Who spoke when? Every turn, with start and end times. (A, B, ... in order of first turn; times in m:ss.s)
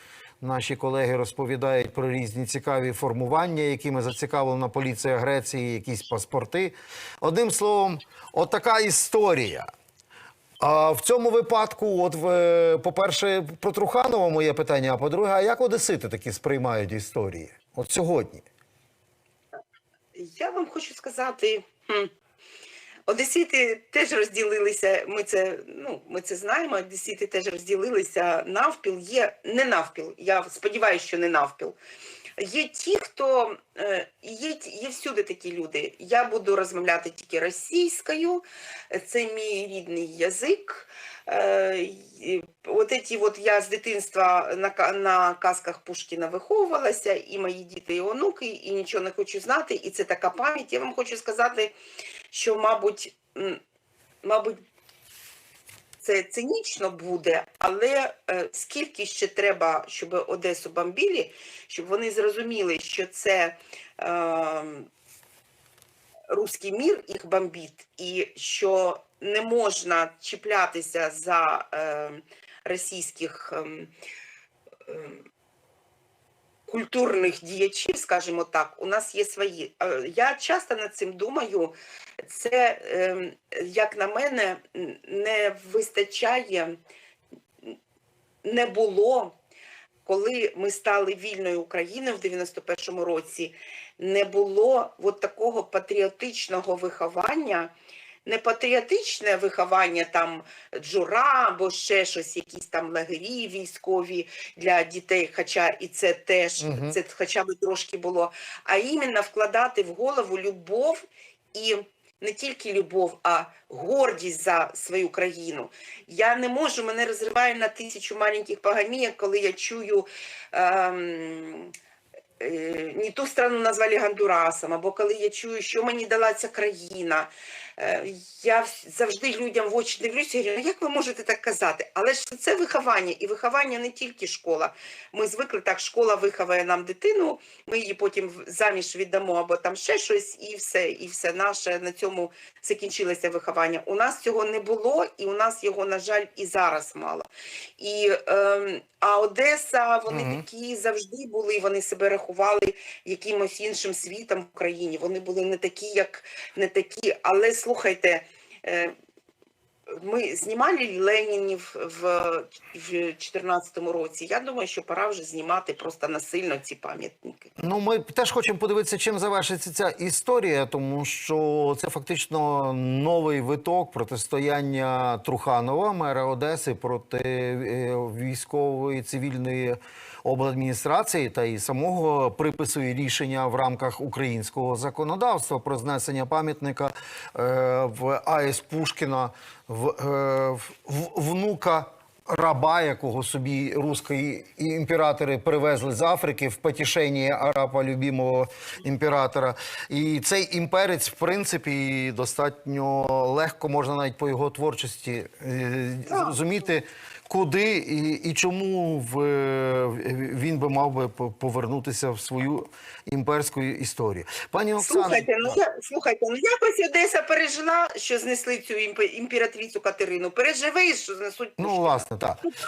0:00.4-0:09.7 A
0:10.6-0:18.4 A
0:20.1-0:22.1 B
0:23.1-0:31.8 B
0:32.4-0:51.7 B
0:52.3-0:53.6 B
0:54.2-0:54.6 B
0:56.0-1:04.9 B
1:06.3-1:13.9 B
1:14.9-1:15.2 B
1:16.7-1:26.8 B
1:28.4-1:29.3 B
1:30.0-1:37.7 B
1:38.2-2:01.7 B
1:46.6-1:47.0 A
2:02.4-2:27.3 B
2:27.8-2:38.9 B
2:30.1-2:30.4 A
2:39.9-2:47.5 B
2:47.6-3:35.6 A
3:26.1-3:26.4 B
3:34.8-3:42.1 B
3:41.6-3:42.5 A